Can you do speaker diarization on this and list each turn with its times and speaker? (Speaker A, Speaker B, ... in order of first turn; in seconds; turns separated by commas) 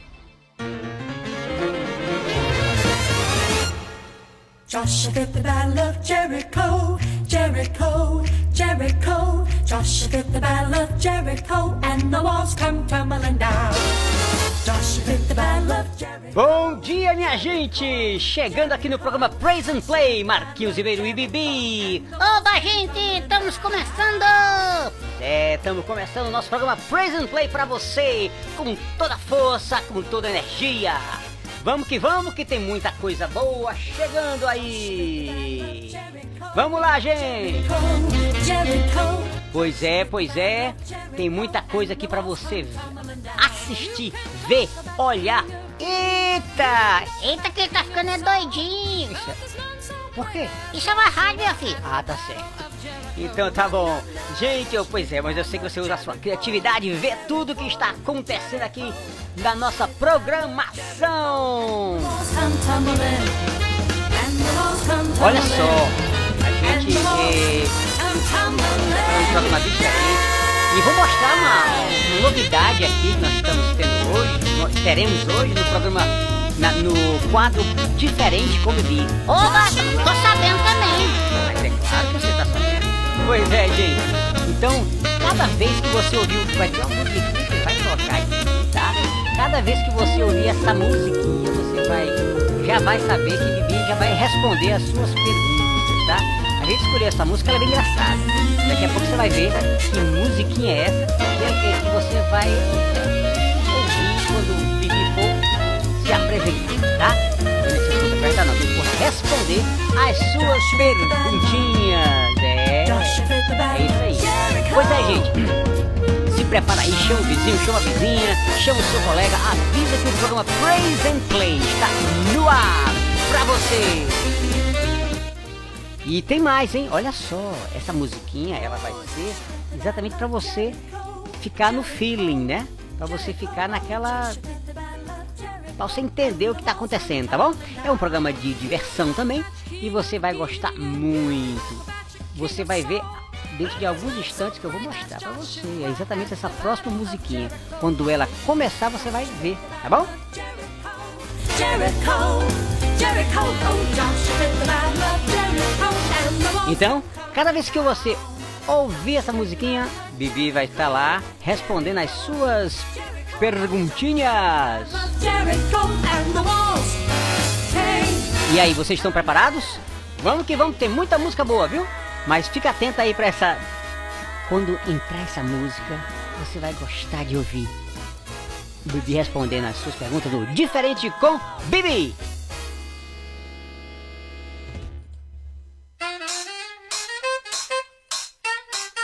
Speaker A: 4.7-13.9, Speaker A: 14.6-16.3, Speaker B: 16.3-22.1, Speaker C: 22.2-24.9, Speaker B: 25.1-37.7, Speaker A: 37.7-39.4, Speaker B: 39.5-47.1, Speaker C: 47.2-49.3, Speaker B: 50.1-50.6, Speaker C: 50.6-51.8, Speaker B: 51.8-62.1, Speaker A: 62.2-63.3, Speaker A: 64.1-65.8, Speaker B: 65.2-67.8, Speaker A: 66.6-69.6, Speaker B: 69.0-79.3, Speaker C: 79.2-81.2, Speaker B: 81.3-105.4, Speaker B: 106.0-115.6, Speaker A: 110.4-111.7, Speaker A: 112.8-115.3, Speaker B: 116.3-124.3, Speaker B: 126.0-130.8, Speaker B: 131.3-134.4, Speaker B: 135.8-150.1, Speaker A: 151.4-156.8, Speaker B: 156.6-165.1, Speaker A: 165.1-167.0, Speaker A: 167.7-168.3, Speaker B: 168.4-173.6, Speaker B: 174.5-177.7, Speaker B: 178.8-182.2